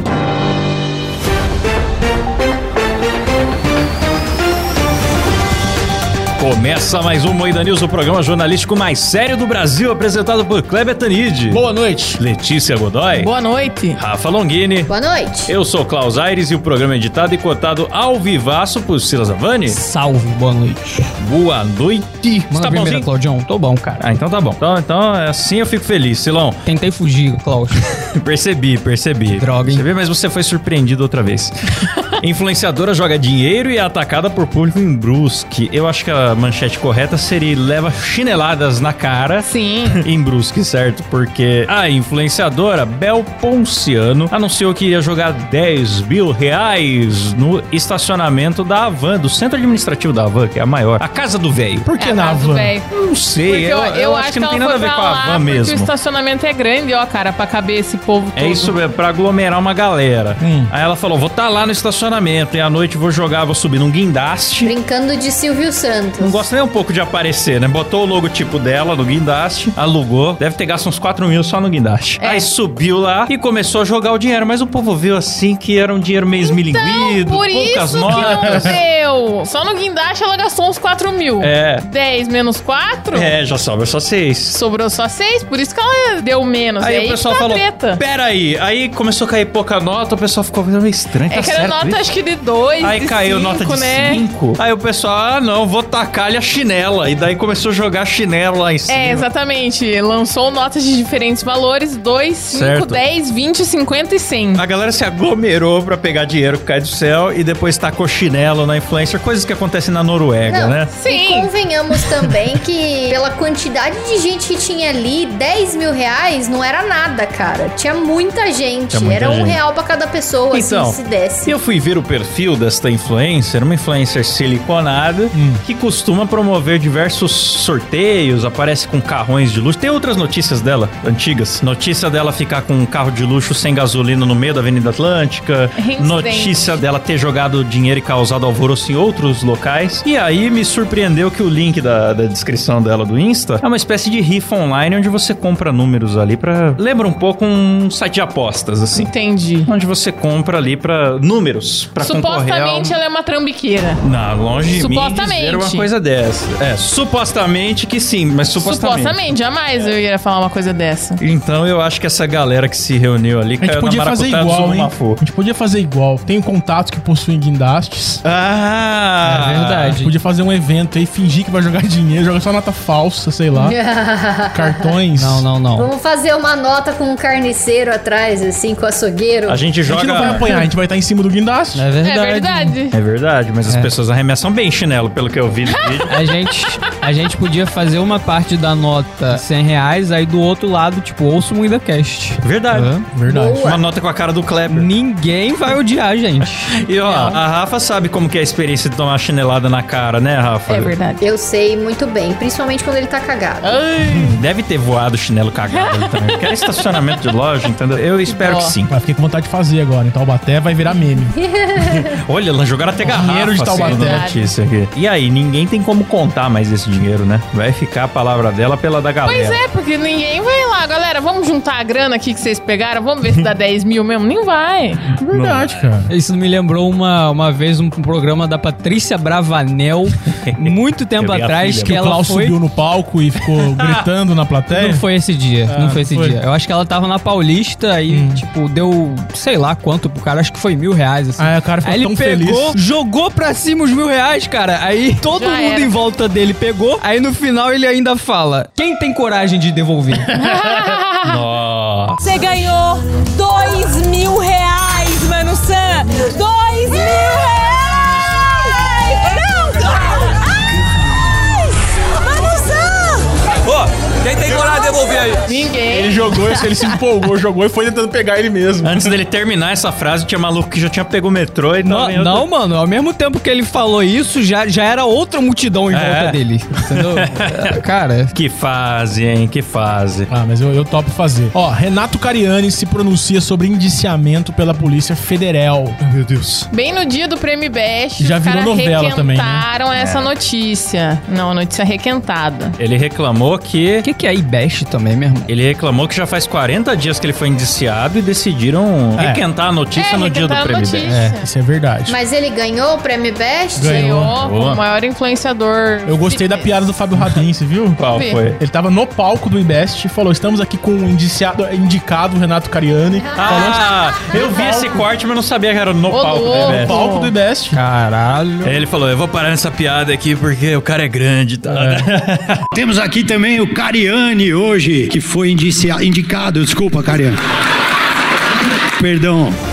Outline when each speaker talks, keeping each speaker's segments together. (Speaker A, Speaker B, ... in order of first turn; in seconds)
Speaker A: 6.4-11.6, 12.2-13.3, 14.0-14.9, 15.5-19.8, 21.2-23.1, 24.0-26.6, 27.8-51.9, 52.9-55.9, 58.4-64.7, 66.2-78.8, 81.4-81.9, 83.1-84.6, 86.8-92.0, 92.8-99.3, 102.5-103.0, 104.5-110.9, 112.0-112.3, 118.9-119.6, 120.5-149.1, 149.7-153.0, 154.0-159.2, 161.2-165.2, 168.2-170.0, 179.5-180.5, 182.9-186.1, 192.4-193.0, 193.6-194.9, 196.7-200.9, 204.1-208.9, 211.8-219.6, 225.2-225.9, 230.3-232.1, 233.5-234.1, 251.2-252.4, 268.8-272.5, 275.9-277.7, 278.3-280.3, 286.0-286.7, 289.9-290.3, 292.8-294.1, 295.5-301.2, 304.4-304.8, 308.0-308.6, 313.4-317.0, 318.6-322.6
Speaker B: 11.5-12.2, 51.8-52.8, 60.4-60.7, 78.1-78.7, 125.3-125.6, 163.6-168.2, 169.2-173.8, 174.5-175.5, 179.8-181.9, 193.1-193.6, 208.9-211.3, 213.0-214.2, 225.2-226.1, 231.8-235.0, 235.7-236.4, 238.1-238.4, 241.4-242.8, 265.8-269.1, 280.3-286.0, 288.2-289.7, 299.2-299.4, 301.1-302.2, 303.8-304.3, 306.1-308.0, 308.6-315.0, 316.5-317.8, 321.7-322.1
Speaker C: 13.1-14.0, 39.4-40.0, 52.0-52.9, 53.5-58.8, 72.2-72.5, 76.4-83.4, 84.5-88.0, 91.3-94.2, 98.9-104.6, 110.9-111.5, 135.8-136.6, 148.9-149.7, 152.0-154.0, 154.6-155.9, 158.6-161.2, 182.0-182.9, 200.7-201.3, 203.6-204.4, 205.7-207.1, 208.3-208.8, 213.7-214.5, 219.2-225.0, 245.4-245.9, 250.4-251.4, 265.5-266.4, 286.7-292.8, 299.9-301.5, 303.8-306.9, 308.1-308.4, 316.1-317.3
Speaker D: 14.9-15.5, 64.6-66.4, 110.5-121.5, 173.6-175.0, 175.8-179.6, 193.3-193.8, 201.2-203.8, 211.3-212.1, 302.1-304.2, 313.1-314.8
Speaker E: 19.7-21.1, 22.5-24.0, 26.7-27.8, 29.3-29.9, 169.5-170.2, 175.2-175.9, 181.8-182.8, 183.7-183.9, 186.1-193.1, 194.7-197.4, 226.1-232.6, 234.7-250.3, 252.3-258.0, 258.7-260.1, 262.3-265.5, 271.9-278.3, 294.0-295.5, 317.7-318.8
Speaker F: 322.7-327.4, 329.0-329.6